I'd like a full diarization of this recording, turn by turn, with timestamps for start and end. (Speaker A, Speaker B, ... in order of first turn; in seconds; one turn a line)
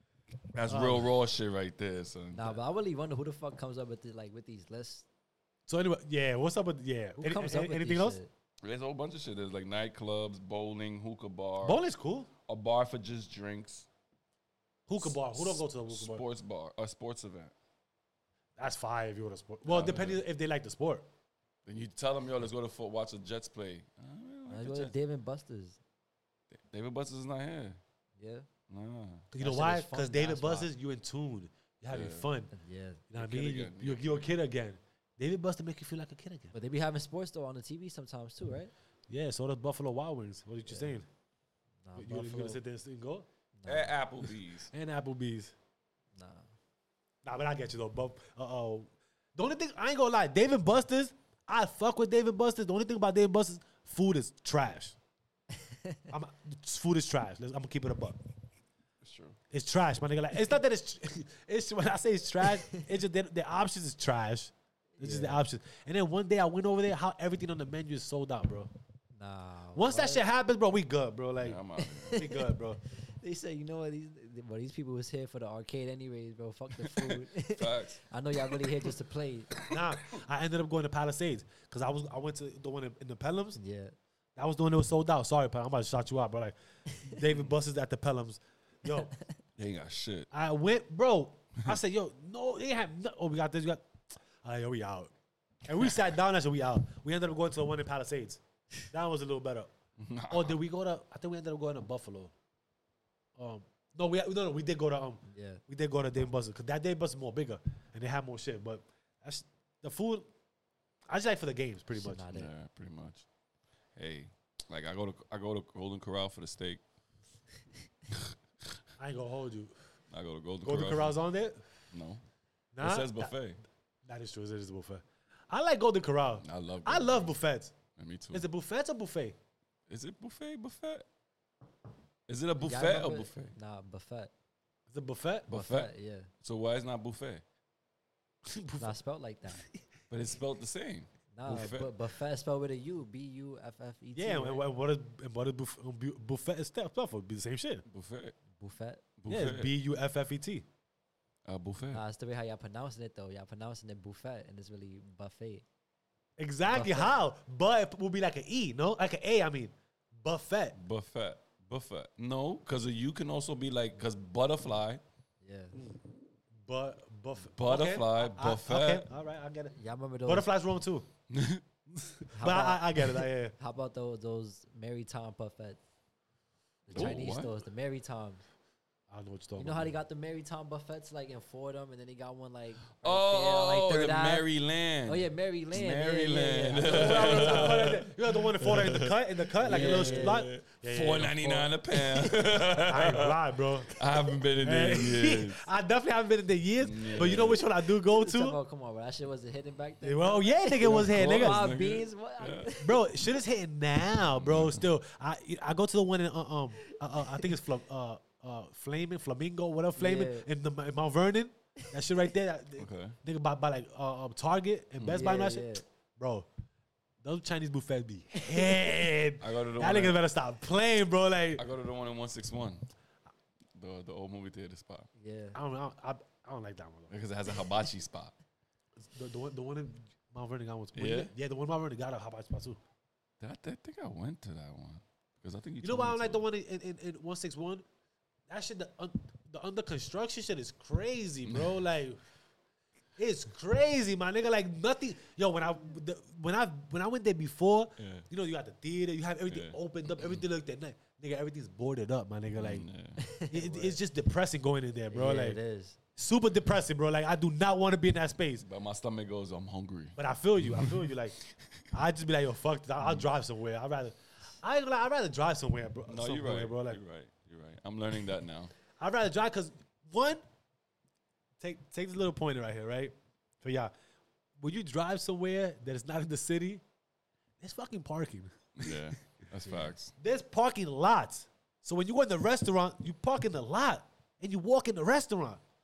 Speaker A: 0.5-2.6
Speaker B: 0.7-1.1
Speaker C: 2.3-5.1
Speaker B: 5.7-8.2
Speaker C: 7.2-8.3
Speaker A: 8.6-11.8
Speaker B: 11.6-12.3
Speaker A: 12.5-13.9
Speaker B: 14.9-16.2
Speaker A: 15.0-17.5
Speaker B: 18.6-21.1
Speaker A: 19.6-20.2
Speaker A: 21.6-24.9
Speaker C: 24.5-25.8
Speaker A: 26.5-27.8
Speaker C: 28.2-28.5
Speaker A: 28.7-29.3
Speaker B: 29.3-32.5
Speaker C: 29.4-30.7
Speaker A: 31.9-32.3
Speaker C: 32.5-33.0
Speaker B: 33.1-36.5
Speaker A: 33.1-34.3
Speaker C: 36.5-38.7
Speaker B: 39.1-41.1
Speaker C: 40.7-41.0
Speaker C: 41.9-42.6
Speaker B: 42.0-43.3
Speaker C: 43.6-43.9
Speaker A: 43.7-44.7
Speaker B: 44.7-45.5
Speaker C: 46.1-46.5
Speaker B: 47.2-55.0
Speaker C: 55.7-56.0
Speaker B: 56.1-58.2
Speaker A: 59.0-59.4
Speaker B: 59.5-68.7
Speaker C: 65.0-65.4
Speaker C: 69.2-70.2
Speaker B: 69.8-71.6
Speaker A: 71.4-72.3
Speaker C: 71.8-79.5
Speaker B: 72.1-72.8
Speaker A: 76.8-78.0
Speaker A: 78.5-78.9
Speaker B: 79.7-83.6
Speaker C: 83.6-84.0
Speaker B: 84.4-89.1
Speaker A: 89.6-90.3
Speaker B: 90.3-93.8
Speaker B: 94.4-95.1
Speaker B: 95.7-99.7
Speaker A: 100.0-100.6
Speaker B: 100.3-102.3
Speaker B: 103.4-110.3
Speaker C: 105.3-105.6
Speaker B: 111.1-112.3
Speaker C: 111.9-112.5
Speaker A: 112.3-113.3
Speaker A: 114.0-116.8
Speaker B: 119.0-119.8
Speaker A: 120.1-121.2
Speaker B: 120.6-121.6
Speaker A: 121.9-122.2
Speaker B: 122.8-123.3
Speaker A: 122.8-123.6
Speaker B: 124.1-127.8
Speaker A: 126.4-127.3
Speaker A: 128.0-128.5
Speaker B: 128.3-129.4
Speaker A: 129.9-131.1
Speaker A: 132.3-133.5
Speaker C: 132.6-134.3
Speaker B: 134.9-135.5
Speaker A: 135.5-137.4
Speaker C: 135.5-136.3
Speaker B: 138.5-139.0
Speaker C: 138.8-139.6
Speaker A: 140.1-141.9
Speaker C: 141.3-144.6
Speaker B: 144.2-147.8
Speaker A: 147.9-148.4
Speaker C: 148.6-149.0
Speaker A: 149.2-149.7
Speaker B: 149.3-150.7
Speaker A: 151.4-152.0
Speaker C: 151.9-155.7
Speaker B: 156.4-160.8
Speaker C: 156.7-157.2
Speaker A: 160.8-165.0
Speaker C: 165.4-165.8
Speaker B: 165.8-166.0
Speaker B: 166.6-171.1
Speaker A: 167.6-169.1
Speaker C: 169.7-170.5
Speaker A: 171.3-171.6
Speaker C: 172.3-175.8
Speaker B: 172.4-173.6
Speaker C: 176.9-178.4
Speaker A: 176.9-177.6
Speaker B: 179.1-179.9
Speaker C: 179.6-184.5
Speaker A: 183.0-193.4
Speaker C: 185.1-188.0
Speaker B: 186.8-194.0
Speaker C: 189.6-190.5
Speaker A: 193.9-195.7
Speaker B: 194.6-198.6
Speaker A: 196.8-197.7
Speaker C: 198.1-203.1
Speaker B: 200.0-201.6
Speaker A: 200.8-202.8
Speaker B: 202.8-216.5
Speaker A: 204.3-204.9
Speaker C: 206.8-207.6
Speaker C: 210.0-210.5
Speaker A: 212.8-213.2
Speaker A: 215.0-215.3
Speaker C: 215.1-215.8
Speaker B: 217.2-221.7
Speaker C: 218.4-218.9
Speaker A: 219.4-220.2
Speaker A: 221.6-222.9
Speaker A: 223.8-225.1
Speaker C: 225.2-225.6
Speaker B: 225.6-227.2
Speaker A: 227.1-228.4
Speaker B: 229.0-232.8
Speaker A: 230.9-231.3
Speaker A: 233.4-236.4
Speaker B: 235.8-237.8
Speaker B: 238.5-242.2
Speaker A: 241.4-241.8
Speaker B: 243.2-252.9
Speaker A: 248.0-248.3
Speaker A: 249.5-250.4
Speaker A: 252.5-253.2
Speaker C: 253.2-254.0
Speaker B: 253.5-255.6
Speaker C: 255.1-256.0
Speaker B: 256.2-258.7
Speaker A: 258.6-261.8
Speaker B: 260.2-261.4
Speaker B: 261.9-267.0
Speaker A: 266.1-268.7
Speaker B: 269.0-270.4
Speaker B: 271.6-273.9
Speaker B: 274.6-276.8
Speaker B: 277.6-279.1
Speaker A: 278.8-280.1
Speaker B: 280.2-285.6